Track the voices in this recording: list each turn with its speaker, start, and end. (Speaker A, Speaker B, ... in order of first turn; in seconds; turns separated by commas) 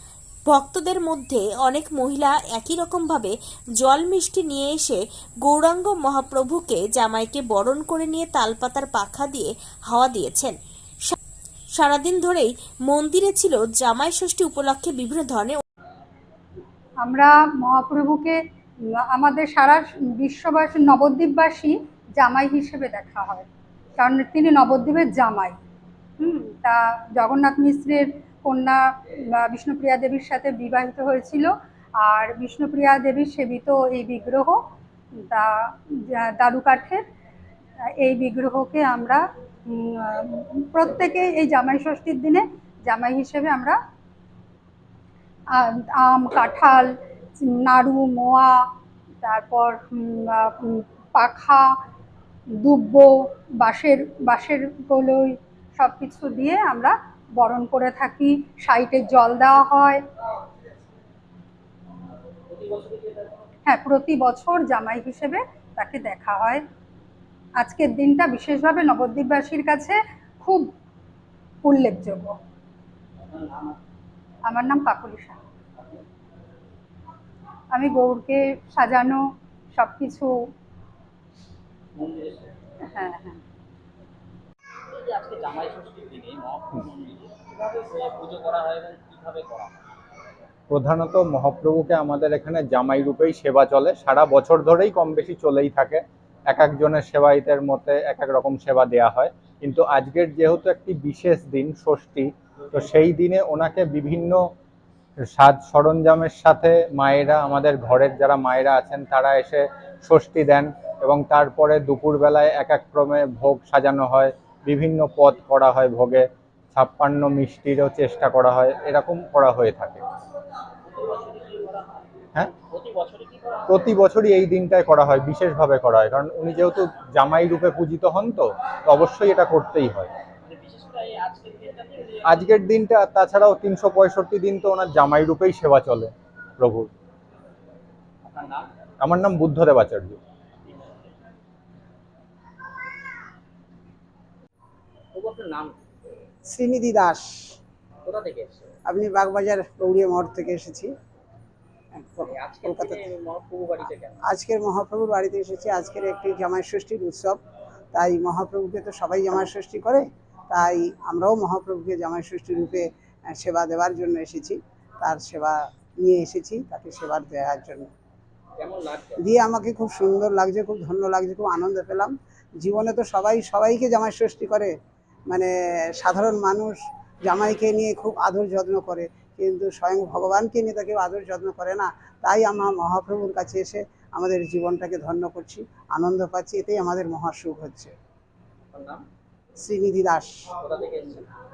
Speaker A: 0.5-10.5, Speaker A: 11.8-15.6, Speaker B: 17.0-18.4, Speaker B: 19.0-23.5, Speaker B: 24.0-25.6, Speaker B: 26.2-34.6, Speaker B: 35.2-37.0, Speaker B: 38.0-43.8, Speaker B: 45.5-46.9, Speaker B: 47.4-48.6, Speaker B: 49.2-51.7, Speaker B: 52.6-53.1, Speaker B: 53.6-60.0, Speaker C: 62.5-63.3, Speaker B: 63.6-66.6, Speaker B: 67.6-70.7, Speaker B: 71.6-72.3, Speaker C: 73.3-73.8, Speaker B: 74.5-75.4, Speaker B: 77.7-79.2, Speaker B: 79.7-80.3, Speaker C: 82.0-82.5, Speaker B: 82.9-83.4, Speaker C: 84.9-89.7, Speaker D: 90.7-104.4, Speaker D: 105.3-120.0, Speaker C: 120.8-122.0, Speaker C: 122.6-123.9, Speaker D: 123.7-130.1, Speaker C: 130.4-132.4, Speaker D: 132.2-136.9, Speaker C: 138.2-138.7, Speaker D: 139.0-140.2, Speaker C: 140.7-141.0, Speaker C: 145.1-145.7, Speaker E: 146.5-147.6, Speaker C: 148.0-148.7, Speaker E: 148.9-150.9, Speaker E: 151.9-153.1, Speaker C: 152.2-154.2, Speaker E: 154.2-157.4, Speaker E: 157.9-167.9, Speaker C: 168.6-169.2, Speaker E: 169.2-174.7, Speaker E: 175.3-187.9, Speaker C: 188.7-189.0, Speaker E: 189.6-190.6, Speaker C: 190.6-191.3